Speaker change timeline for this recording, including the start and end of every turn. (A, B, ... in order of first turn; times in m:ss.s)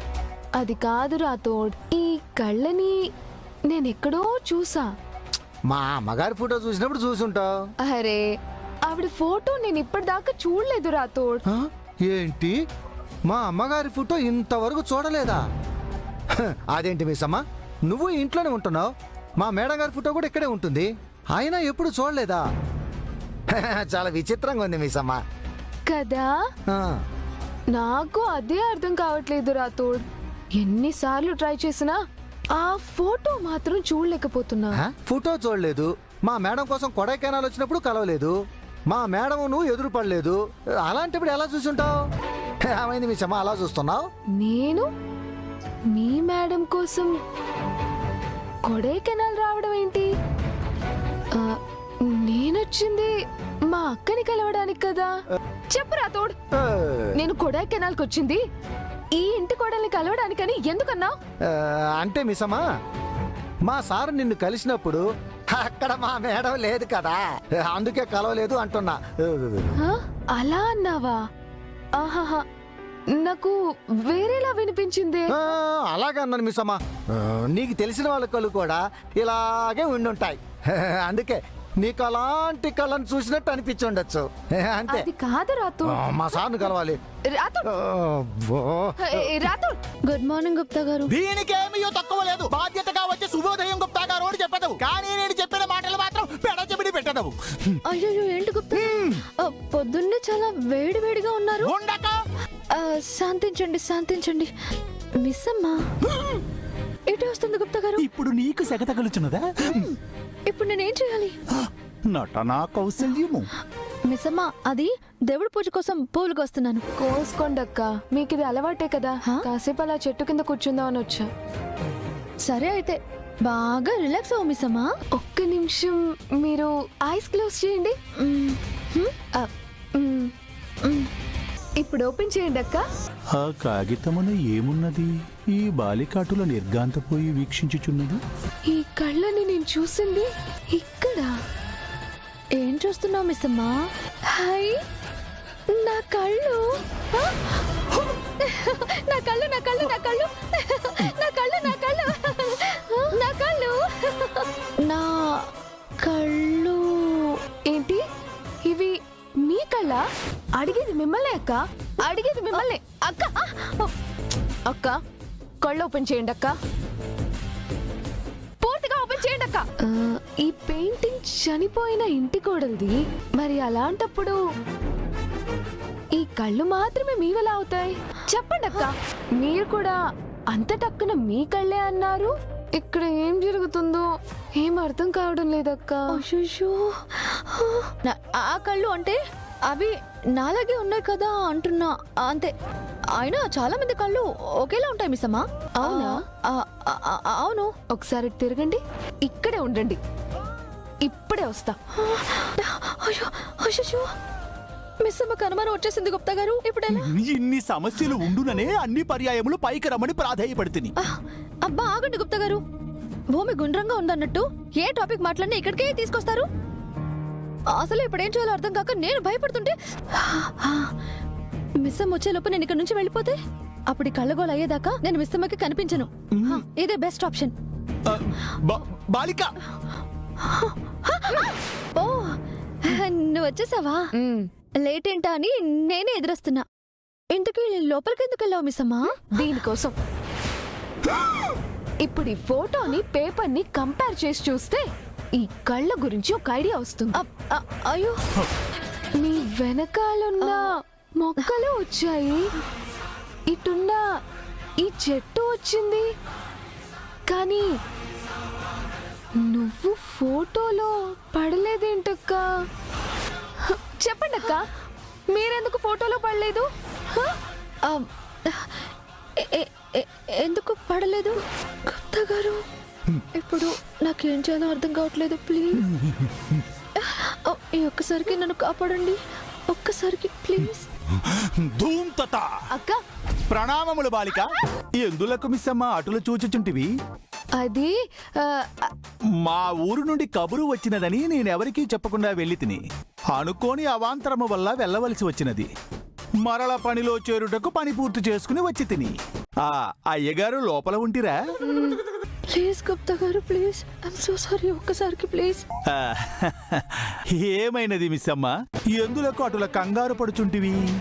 0:00.6-0:03.0 A
0:03.7-0:04.9 A
0:05.7-0:07.5 B
0:07.8-0:08.2 A
0:08.8-0:11.4 A
0:11.5-0:12.6 B
0:13.3-0:15.4 B
0:16.7-0:22.4 B
0:23.6-0:25.2 B
0:25.9-0:26.3 A
0:26.7-0:27.0 B
0:27.7-0:30.0 A
0:30.6-0:32.0 A
0:32.5-0:34.8 A
0:34.8-0:38.3 B
0:38.9-0:41.9 B
0:42.7-0:44.0 B
0:44.4-0:44.9 A
0:45.9-0:47.1 A
0:48.6-0:50.1 A
0:51.3-0:53.1 A
0:53.7-0:55.1 A
0:55.7-0:56.4 A
0:56.5-0:57.1 B
0:57.1-0:58.4 A
0:59.1-1:01.2 A
1:01.5-1:02.6 B
1:03.7-1:05.0 B
1:05.5-1:09.8 B
1:09.8-1:11.2 A
1:12.0-1:12.4 A
1:13.1-1:15.3 A
1:15.3-1:25.0 B
1:24.9-1:26.7 A
1:25.9-1:27.0 B
1:27.3-1:27.7 A
1:27.7-1:29.0 B
1:29.0-1:29.8 A
1:30.0-1:31.1 C
1:31.1-1:37.8 D
1:37.8-1:41.7 C
1:38.8-1:39.2 D
1:41.6-1:42.2 D
1:42.7-1:44.5 C
1:45.2-1:45.8 C
1:47.1-1:48.0 C
1:48.0-1:49.9 D
1:49.7-1:49.9 C
1:50.5-1:51.3 C
1:51.6-1:53.5 D
1:54.1-1:56.8 C
1:57.0-2:01.3 A
2:02.4-2:04.9 C
2:05.1-2:08.0 A
2:08.2-2:09.1 C
2:09.4-2:10.3 A
2:11.8-2:12.8 A
2:13.3-2:18.2 D
2:18.7-2:21.3 A
2:22.5-2:24.8 C
2:25.7-2:26.6 C
2:28.4-2:33.8 C
2:34.8-2:35.4 C
2:36.0-2:37.3 C
2:37.7-2:38.0 A
2:38.6-2:40.0 A
2:40.5-2:43.3 A
2:43.4-2:43.9 C
2:44.7-2:45.0 A
2:45.6-2:46.6 A
2:48.6-2:54.4 A
2:56.1-3:00.0 A
3:00.5-3:04.0 A
3:04.6-3:06.0 A
3:06.1-3:12.5 C
3:13.1-3:17.7 C
3:15.8-3:16.2 A
3:17.9-3:20.0 A
3:21.0-3:21.8 A
3:22.0-3:24.1 C
3:25.0-3:27.1 C
3:26.9-3:30.9 D
3:31.0-3:32.6 C
3:33.3-3:36.5 C
3:37.7-3:40.9 C
3:41.8-3:43.4 C
3:43.9-3:47.5 C
3:46.3-3:46.6 D
3:48.0-3:49.5 D
3:50.4-3:54.1 C
3:54.2-3:54.5 A
3:54.8-3:56.6 C
3:57.3-3:59.1 C
3:59.3-4:00.0 A
4:02.0-4:04.8 A
4:05.4-4:07.2 A
4:07.2-4:08.2 C
4:09.2-4:12.4 A
4:13.5-4:14.0 A
4:14.8-4:16.0 A
4:17.3-4:17.6 A
4:19.4-4:22.4 A
4:24.0-4:24.6 A
4:25.3-4:26.7 A
4:27.8-4:28.7 C
4:29.4-4:32.6 C
4:33.3-4:35.8 C
4:36.0-4:36.6 D
4:37.0-4:40.9 C
4:41.2-4:42.5 D
4:42.7-4:43.0 A
4:43.5-4:46.9 D
4:47.5-4:48.9 A
4:49.4-4:52.8 D
4:53.3-4:55.7 D
4:56.4-5:01.4 D
5:01.6-5:05.6 C
5:05.9-5:10.8 D